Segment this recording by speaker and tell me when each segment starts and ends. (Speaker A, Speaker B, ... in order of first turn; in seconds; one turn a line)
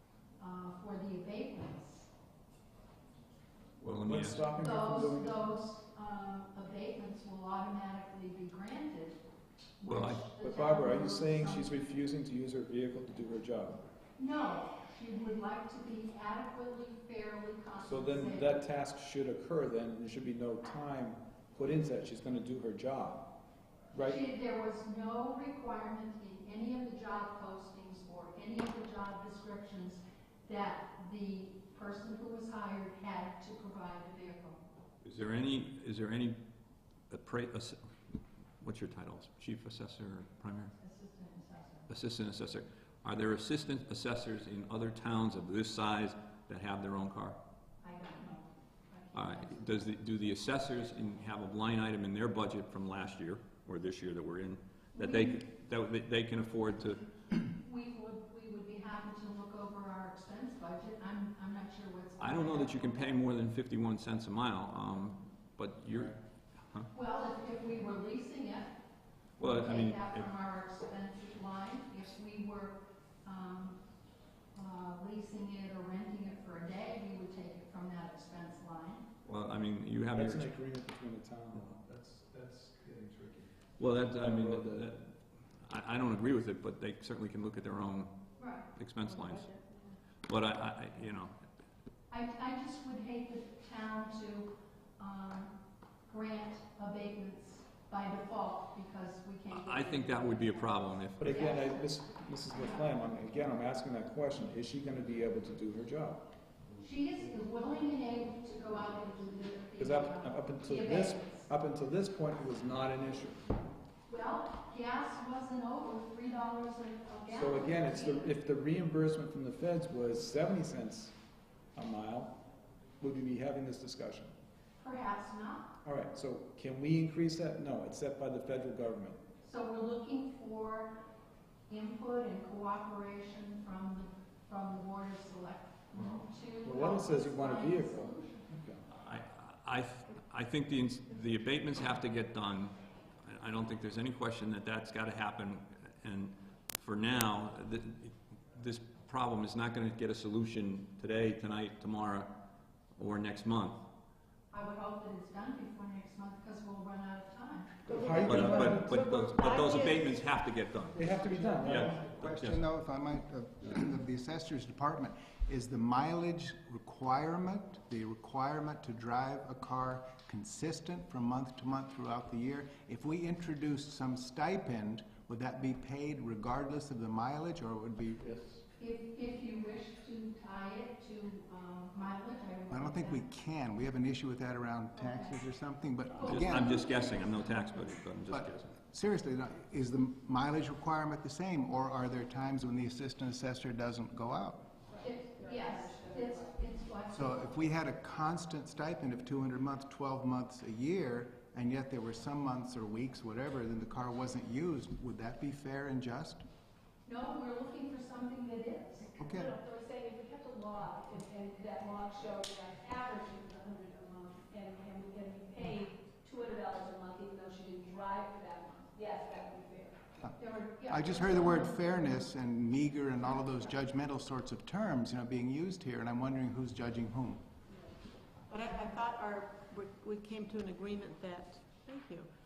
Speaker A: 0.4-2.1
Speaker B: 3.8-4.5
Speaker C: 4.0-5.4
Speaker A: 4.6-9.2
Speaker A: 9.8-11.7
Speaker B: 9.8-10.2
Speaker C: 10.3-13.8
Speaker A: 14.2-18.6
Speaker C: 17.8-23.3
Speaker C: 23.9-24.2
Speaker A: 24.0-34.6
Speaker B: 35.0-36.4
Speaker B: 37.1-37.8
Speaker B: 38.6-40.7
Speaker A: 40.8-41.9
Speaker B: 41.9-47.4
Speaker A: 47.8-49.8
Speaker B: 49.1-57.0
Speaker A: 55.0-55.4
Speaker A: 57.5-63.0
Speaker B: 62.2-66.2
Speaker A: 66.9-68.8
Speaker B: 69.4-70.3
Speaker A: 69.4-73.8
Speaker A: 74.5-79.0
Speaker B: 79.2-80.5
Speaker C: 80.1-83.5
Speaker B: 83.8-88.1
Speaker C: 84.1-84.7
Speaker A: 88.4-88.7
Speaker B: 88.7-89.5
Speaker D: 89.0-90.0
Speaker B: 90.3-91.4
Speaker A: 92.1-95.5
Speaker A: 96.1-101.8
Speaker B: 99.5-101.5
Speaker C: 101.2-106.2
Speaker A: 102.5-102.8
Speaker A: 106.8-111.5
Speaker C: 109.8-113.4
Speaker A: 114.1-118.3
Speaker C: 117.3-121.1
Speaker C: 121.7-122.4
Speaker C: 123.0-124.3
Speaker A: 124.8-125.7
Speaker C: 125.8-129.2
Speaker A: 129.4-131.0
Speaker A: 131.7-138.5
Speaker C: 136.6-138.8
Speaker B: 138.9-152.3
Speaker B: 153.0-153.8
Speaker A: 154.5-158.2
Speaker D: 157.9-160.2
Speaker C: 158.0-158.9
Speaker B: 158.2-162.6
Speaker C: 160.9-162.1
Speaker E: 161.6-178.6
Speaker A: 178.8-183.2
Speaker E: 182.7-186.9
Speaker A: 184.9-185.3
Speaker A: 186.1-187.3
Speaker B: 186.2-188.7
Speaker E: 188.3-194.6
Speaker D: 195.0-196.3
Speaker A: 195.0-197.6
Speaker E: 197.1-206.4
Speaker A: 207.1-209.2
Speaker E: 209.2-209.5
Speaker F: 209.4-219.9
Speaker A: 220.4-222.1
Speaker E: 220.8-227.4
Speaker D: 228.5-232.3